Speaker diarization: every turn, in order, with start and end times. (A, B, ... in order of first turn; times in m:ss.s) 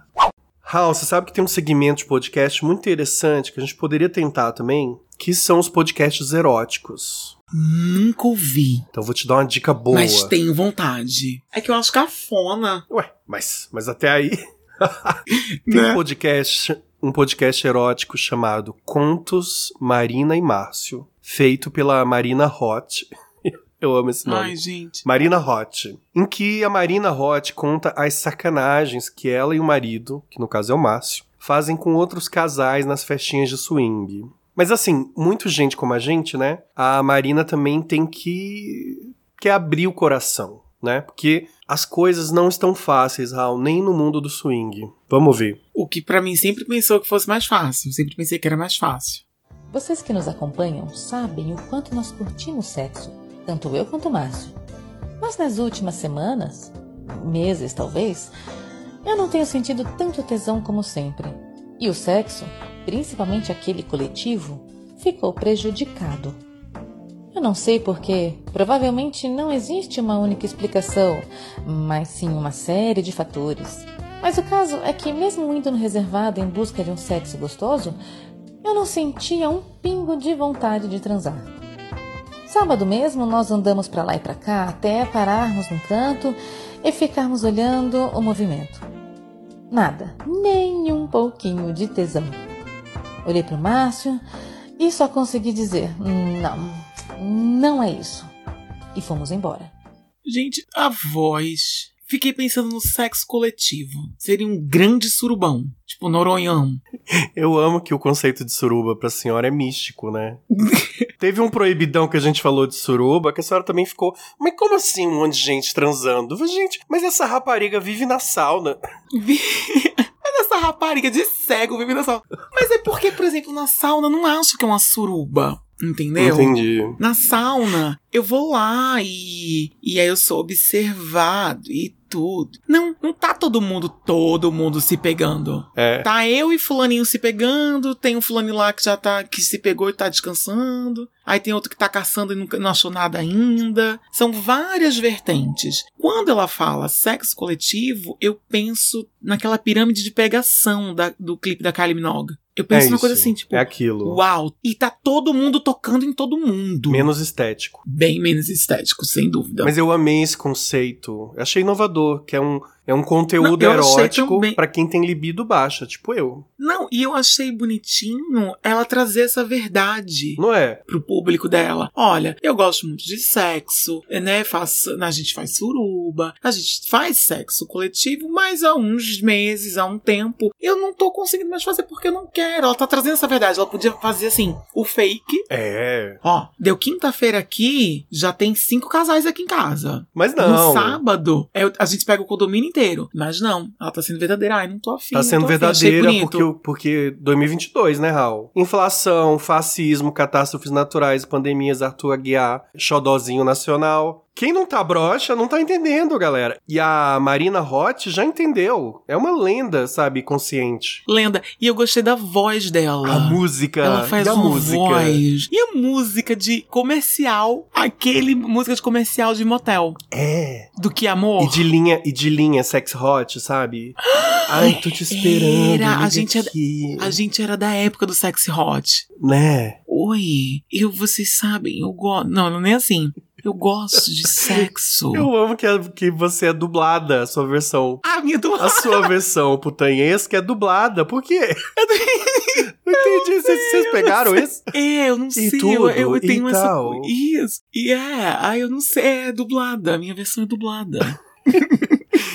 0:00.6-0:07.3 A
0:07.5-0:08.8 B
0:08.9-0:10.3 A
0:09.9-0:12.8 B
0:12.9-0:45.6 A
0:15.3-0:16.0 B
0:24.2-0:25.0 B
0:45.7-0:49.2 B
0:49.7-0:54.5 C
0:55.2-0:58.3 C
0:59.0-1:06.4 C
1:07.3-1:18.0 C
1:18.6-1:21.5 C
1:22.4-1:28.8 C
1:29.7-1:32.4 C
1:33.2-1:34.2 C
1:34.8-1:38.3 C
1:38.9-1:39.7 C
1:40.2-1:46.8 B
1:47.3-1:50.4 A
1:50.6-1:51.0 B
1:51.2-1:58.8 A
1:59.1-2:37.1 B
2:06.2-2:07.0 A
2:15.8-2:16.1 A
2:32.7-2:34.2 A
2:36.9-2:37.8 A
2:37.8-2:39.7 B
2:39.6-2:46.4 A
2:43.4-2:44.6 B
2:46.6-3:05.4 B
2:50.4-2:50.8 A
3:05.5-3:06.2 A
3:06.2-3:16.5 B
3:10.1-3:11.0 A
3:15.1-3:31.0 A
3:31.1-3:40.0 B
3:33.0-3:35.2 A
3:40.1-3:40.7 A
3:40.8-3:41.6 B
3:41.4-3:47.2 A
3:44.1-3:49.0 B
3:49.2-3:49.8 A
3:49.9-3:55.3 B
3:54.4-3:58.0 A
3:58.0-3:59.1 B
3:58.6-4:01.7 A
4:01.8-4:12.0 B
4:02.8-4:04.7 A
4:05.4-4:07.1 A